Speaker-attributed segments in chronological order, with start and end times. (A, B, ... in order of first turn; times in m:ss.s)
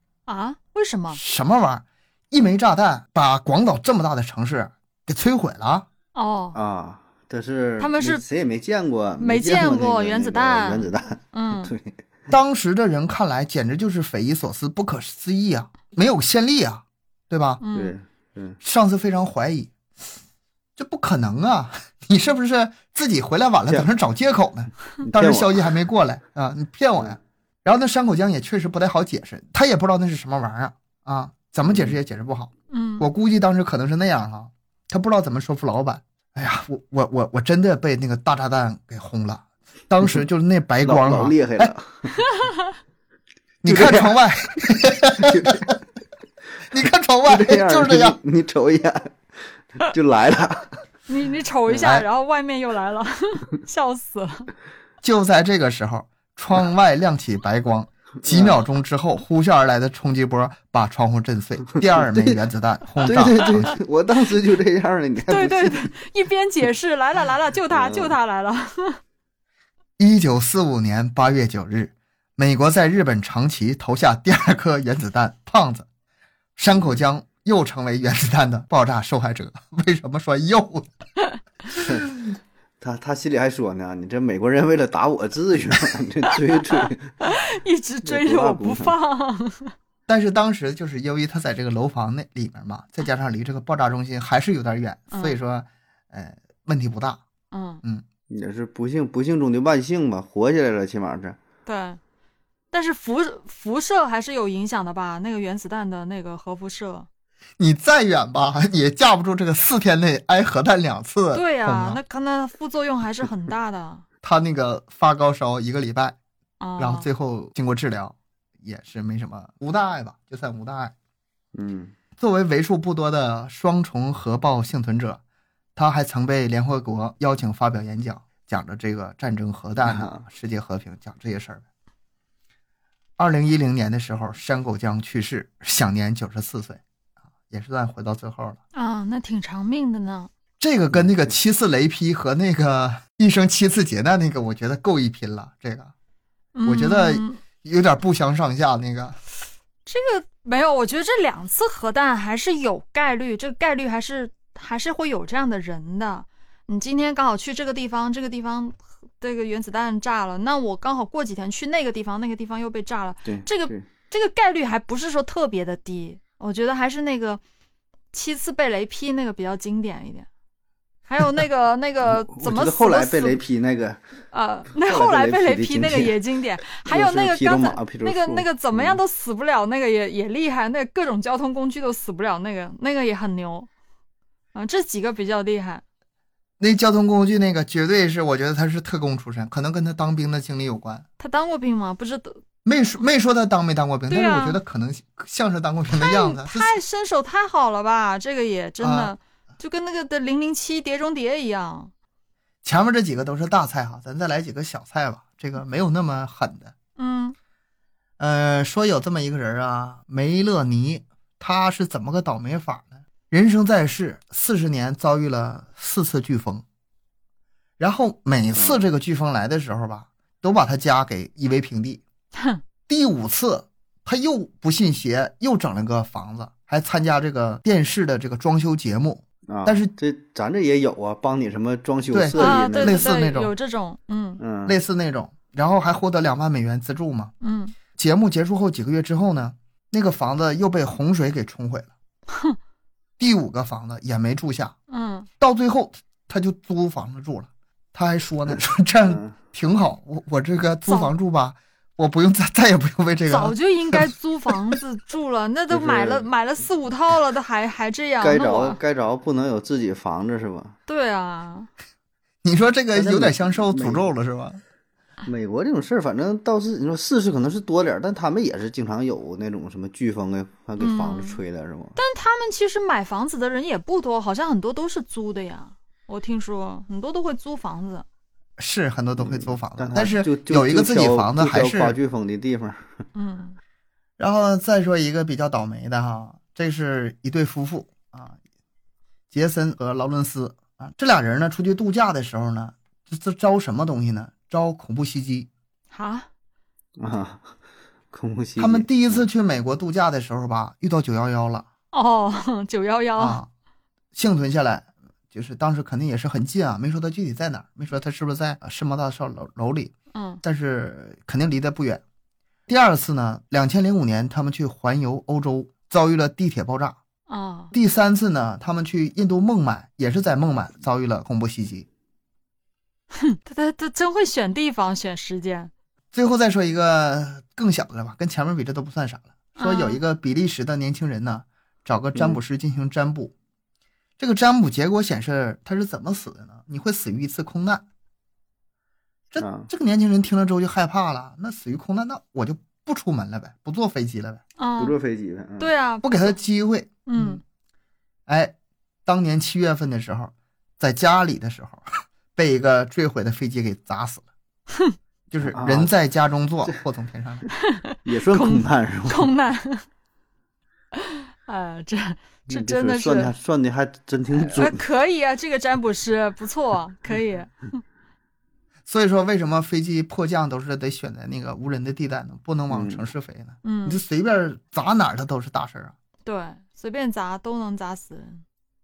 0:00.3-0:01.2 A
0:01.1-0:05.9 B
0:06.1-0:06.6 A
0:06.5-0:12.0 C
0:07.8-0:08.2 A
0:09.2-0:11.7 A
0:12.3-0:17.6 B
0:17.6-0:17.9 A
0:17.7-0:18.6 C
0:18.6-0:19.7 B
0:20.8-0:41.7 B
0:25.0-0:25.7 C
0:31.7-0:32.0 C
0:32.7-0:33.1 A
0:40.8-0:42.1 C
0:42.2-0:42.7 A
0:43.6-0:45.7 B
0:43.6-0:44.2 C
0:45.0-0:45.7 C
0:46.7-0:48.2 B
0:47.2-0:49.1 C
0:49.8-0:50.8 C
0:51.1-0:54.5 A
0:51.7-0:52.0 B
0:55.0-1:03.8 B
0:58.2-0:58.6 C
1:02.0-1:02.3 C
1:03.0-1:05.9 C
1:05.3-1:09.0 A
1:07.7-1:08.2 C
1:10.0-1:15.9 B
1:16.6-1:20.9 B
1:16.7-1:17.0 C
1:21.8-1:22.1 C
1:22.8-1:27.3 C
1:26.3-1:29.7 A
1:28.0-1:28.9 C
1:30.1-1:37.2 B
1:35.1-1:35.4 A
1:37.5-1:37.8 A
1:38.3-1:41.4 C
1:41.6-1:42.0 A
1:42.7-1:47.1 A
1:47.6-1:52.0 B
1:51.3-1:54.0 A
1:54.2-1:56.2 B
1:56.6-1:57.1 A
1:56.8-2:00.9 B
2:01.5-2:01.9 C
2:02.2-2:05.2 B
2:05.8-2:11.6 B
2:09.8-2:10.2 C
2:13.2-2:16.8 B
2:17.5-2:18.6 B
2:18.7-2:20.3 A
2:20.6-2:25.9 B
2:26.5-2:27.4 A
2:26.6-2:29.2 B
2:29.8-2:47.4 A
2:43.2-2:43.8 C
2:48.1-2:50.3 A
2:51.1-2:53.4 A
2:52.0-2:54.0 C
2:54.3-3:03.7 A
2:54.8-2:59.0 C
3:04.5-3:05.8 A
3:06.6-3:11.0 B
3:11.2-3:12.4 A
3:12.6-3:16.8 B
3:14.1-3:14.6 A
3:15.9-3:21.9 A
3:18.8-3:19.1 B
3:22.6-3:26.7 B
3:27.0-3:27.4 A
3:28.2-3:36.6 B
3:37.8-3:42.0 B
3:38.5-3:38.8 C
3:42.4-3:42.6 A
3:42.9-3:49.9 B
3:49.5-3:53.1 C
3:52.1-3:53.5 B
3:52.4-3:54.4 A
3:54.4-3:54.8 C
3:54.6-3:57.3 B
3:57.4-3:57.7 A
3:58.0-4:01.9 B
4:02.3-4:02.6 A
4:03.2-4:04.7 B
4:04.9-4:05.3 A
4:05.4-4:14.7 B
4:09.0-4:09.3 C
4:10.8-4:11.1 A
4:13.2-4:18.8 A
4:15.7-4:16.3 C
4:18.2-4:20.8 C
4:20.9-4:21.7 A
4:22.4-4:24.6 B
4:22.9-4:24.1 C
4:25.2-4:32.0 C
4:30.8-4:31.4 A
4:32.0-4:38.0 A
4:38.6-4:42.0 B
4:39.2-4:43.0 C
4:43.1-4:43.6 A
4:44.2-4:48.4 B
4:49.3-4:55.5 B
4:55.9-4:56.3 A
4:57.0-4:57.5 C
4:58.1-4:59.2 C
4:58.6-5:01.6 B
5:01.9-5:03.4 A
5:03.2-5:03.5 B
5:04.1-5:09.9 B
5:10.1-5:10.4 A
5:10.4-5:12.0 B
5:12.7-5:17.0 B
5:17.3-5:17.7 A
5:17.7-5:21.9 B
5:23.2-5:25.7 A
5:26.1-5:33.3 B
5:29.6-5:30.0 A
5:32.1-5:32.4 C
5:34.2-5:37.8 B
5:39.3-5:44.4 B
5:39.4-5:39.7 C
5:44.6-5:44.9 A
5:44.8-5:45.7 C
5:45.6-5:46.3 A
5:46.0-5:47.4 B
5:47.0-5:47.4 A
5:48.3-5:48.5 B
5:49.0-5:54.3 B
5:54.7-5:55.0 A
5:55.3-5:57.5 B
5:55.4-5:55.9 C
5:57.6-5:59.8 A
5:58.0-5:59.3 C
6:01.0-6:03.3 A
6:02.5-6:04.8 C
6:04.3-6:07.8 A
6:08.9-6:15.9 B
6:12.7-6:13.0 C
6:13.6-6:14.0 A
6:16.2-6:18.4 A